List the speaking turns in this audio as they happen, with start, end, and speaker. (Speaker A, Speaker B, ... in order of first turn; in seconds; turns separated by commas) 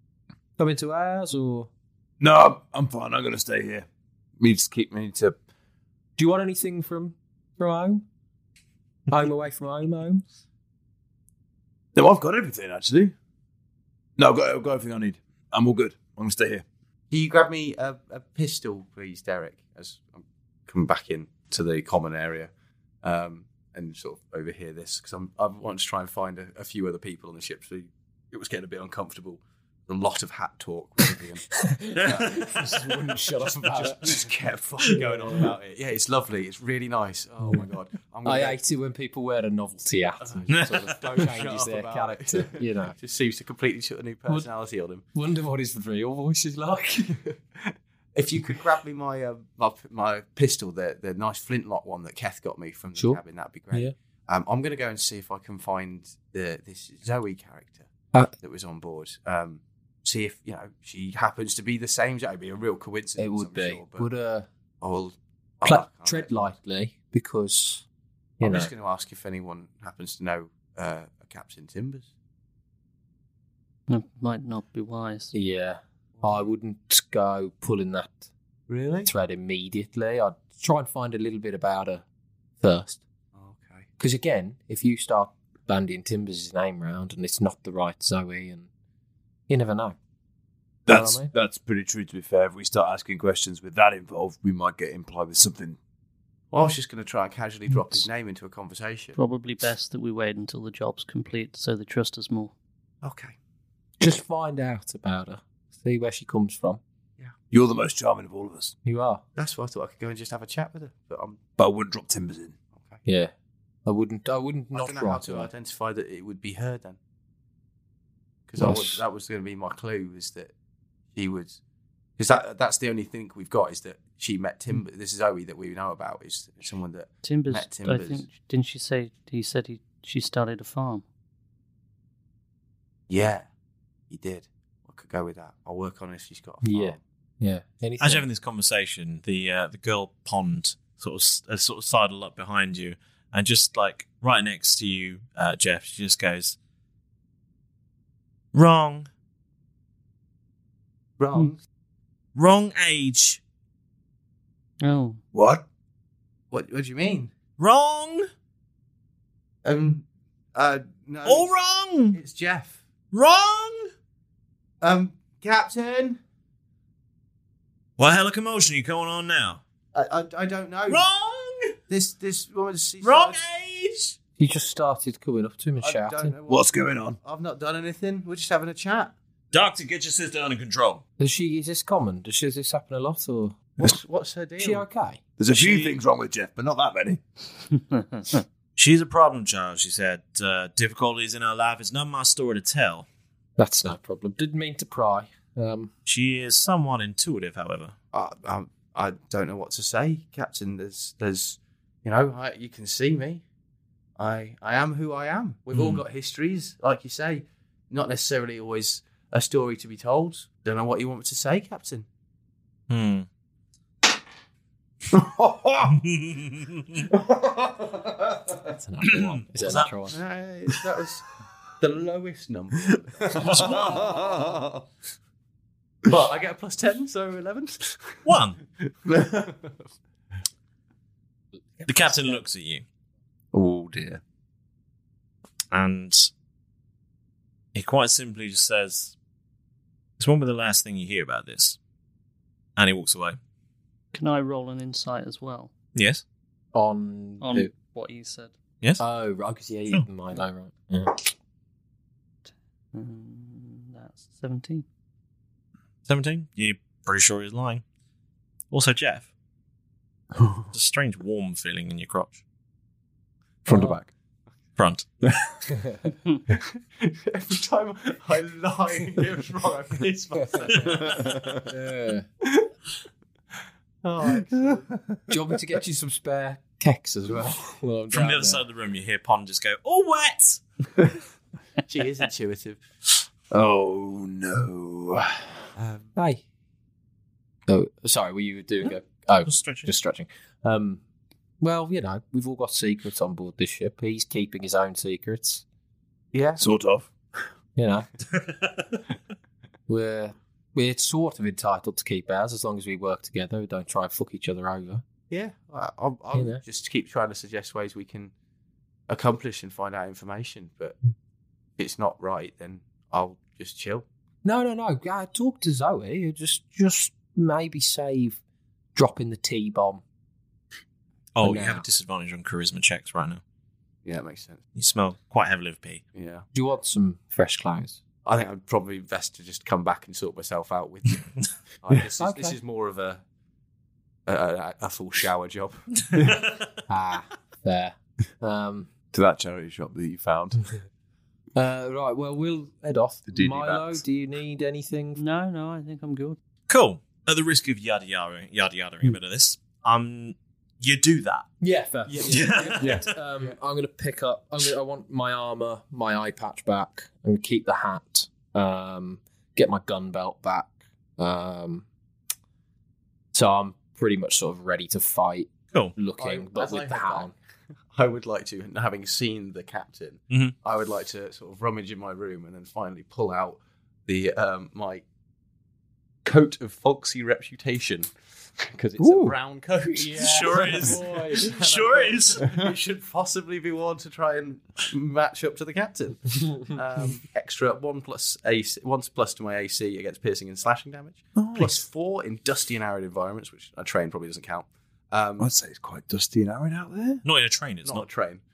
Speaker A: 0.6-1.7, Speaker B: 2.2-3.9, Speaker B: 4.4-5.4, Speaker A: 6.2-8.0, Speaker A: 9.1-10.2, Speaker B: 11.9-13.1, Speaker B: 14.2-16.6, Speaker C: 17.1-22.5, Speaker C: 23.0-38.6, Speaker A: 31.6-34.3, Speaker A: 34.9-35.5, Speaker A: 38.2-43.0, Speaker C: 40.2-45.0, Speaker D: 40.5-41.0, Speaker A: 45.1-47.2, Speaker C: 47.6-57.9, Speaker A: 53.0-53.2, Speaker C: 58.4-64.1, Speaker A: 63.2-64.5, Speaker C: 64.8-66.5, Speaker A: 65.6-67.8, Speaker A: 68.4-68.7, Speaker C: 68.4-72.1, Speaker E: 73.9-75.3, Speaker A: 75.3-78.3, Speaker C: 78.7-79.1, Speaker A: 79.1-82.0, Speaker A: 82.6-83.0, Speaker C: 83.3-83.9, Speaker A: 84.0-88.7, Speaker A: 89.5-90.0, Speaker B: 90.9-95.8, Speaker A: 90.9-91.3, Speaker C: 96.5-99.2, Speaker E: 99.2-102.5, Speaker C: 103.0-103.3, Speaker A: 104.0-106.8, Speaker B: 107.5-108.8, Speaker A: 108.8-109.2, Speaker C: 109.4-111.4, Speaker B: 111.6-112.6, Speaker C: 112.7-113.0, Speaker A: 113.0-113.3, Speaker A: 113.9-115.5, Speaker C: 114.7-117.0, Speaker C: 118.5-120.5, Speaker A: 118.6-119.0, Speaker C: 121.2-121.6, Speaker C: 122.2-128.3, Speaker E: 127.2-131.0, Speaker C: 133.1-133.5, Speaker C: 134.1-137.0, Speaker A: 136.6-138.3, Speaker D: 138.0-146.6, Speaker D: 148.5-149.1, Speaker C: 151.2-151.6, Speaker D: 152.4-153.4, Speaker E: 154.8-155.2, Speaker B: 155.3-155.6, Speaker C: 156.5-157.3, Speaker D: 157.6-158.3, Speaker C: 159.6-161.5, Speaker D: 161.2-162.2, Speaker C: 162.1-162.8, Speaker D: 163.1-163.9, Speaker C: 164.8-166.2, Speaker D: 168.0-169.6, Speaker C: 169.9-171.1, Speaker D: 170.9-171.8, Speaker C: 171.9-173.4, Speaker D: 173.0-174.2, Speaker A: 174.4-176.3, Speaker C: 175.8-179.1, Speaker B: 176.5-177.2, Speaker D: 179.5-181.0, Speaker A: 181.2-183.7, Speaker C: 183.8-184.9, Speaker A: 184.6-185.2, Speaker B: 185.4-187.2, Speaker D: 185.5-185.9, Speaker D: 188.8-193.1, Speaker A: 193.6-195.9, Speaker D: 196.1-197.9, Speaker C: 198.1-203.4, Speaker C: 204.2-212.1, Speaker D: 205.7-206.0, Speaker D: 212.9-213.3, Speaker B: 215.1-216.0, Speaker D: 215.9-217.0, Speaker A: 218.7-220.2, Speaker D: 219.0-219.9, Speaker C: 220.1-221.2, Speaker C: 221.8-224.6, Speaker D: 223.5-223.8, Speaker B: 223.7-224.1, Speaker C: 226.1-228.3, Speaker D: 228.2-228.6, Speaker C: 228.9-229.9, Speaker A: 231.8-232.4, Speaker D: 231.9-232.8, Speaker B: 233.5-234.2, Speaker D: 235.7-236.3, Speaker D: 237.8-239.2, Speaker D: 240.2-241.8, Speaker D: 242.8-243.4, Speaker E: 244.1-245.7, Speaker D: 245.9-246.2, Speaker A: 246.7-247.7, Speaker E: 247.4-248.5, Speaker A: 249.0-251.3, Speaker E: 252.9-254.8, Speaker D: 256.1-257.8, Speaker D: 258.7-259.3, Speaker D: 260.7-262.4, Speaker B: 263.7-264.1, Speaker A: 263.7-264.0, Speaker D: 264.8-265.1, Speaker B: 265.2-265.5, Speaker C: 267.0-271.5, Speaker A: 271.7-272.3, Speaker C: 274.0-274.9, Speaker A: 275.3-278.6, Speaker D: 278.1-280.6, Speaker C: 281.9-282.8, Speaker B: 283.5-285.6, Speaker C: 285.8-286.1, Speaker A: 286.2-286.4, Speaker A: 287.7-291.0, Speaker D: 289.4-289.9, Speaker A: 291.6-295.6, Speaker C: 296.3-296.6, Speaker B: 296.6-297.1, Speaker A: 297.8-298.1, Speaker A: 299.9-305.0, Speaker C: 305.3-308.3, Speaker A: 306.4-306.6, Speaker C: 309.1-311.0, Speaker C: 311.8-314.1, Speaker A: 314.4-318.4, Speaker A: 318.9-320.0, Speaker D: 321.4-323.4, Speaker A: 321.4-321.9, Speaker C: 324.1-324.6, Speaker D: 324.8-326.0, Speaker C: 326.1-326.5, Speaker A: 326.5-328.0, Speaker C: 328.2-333.2, Speaker A: 332.2-332.6, Speaker C: 334.3-335.8, Speaker D: 336.1-336.6, Speaker A: 336.9-338.9, Speaker B: 339.1-340.6, Speaker A: 341.6-345.2, Speaker B: 343.3-344.0, Speaker E: 345.2-346.4, Speaker D: 346.7-351.5, Speaker A: 351.6-361.9, Speaker C: 352.1-352.9, Speaker D: 352.2-353.1, Speaker B: 352.8-353.1, Speaker A: 363.3-367.3, Speaker C: 366.2-367.3, Speaker C: 367.9-375.1, Speaker C: 376.2-395.5, Speaker B: 379.0-379.4, Speaker A: 379.9-381.4, Speaker D: 380.1-382.5, Speaker B: 391.4-391.8, Speaker B: 395.4-397.2, Speaker D: 397.2-398.1, Speaker C: 397.8-398.4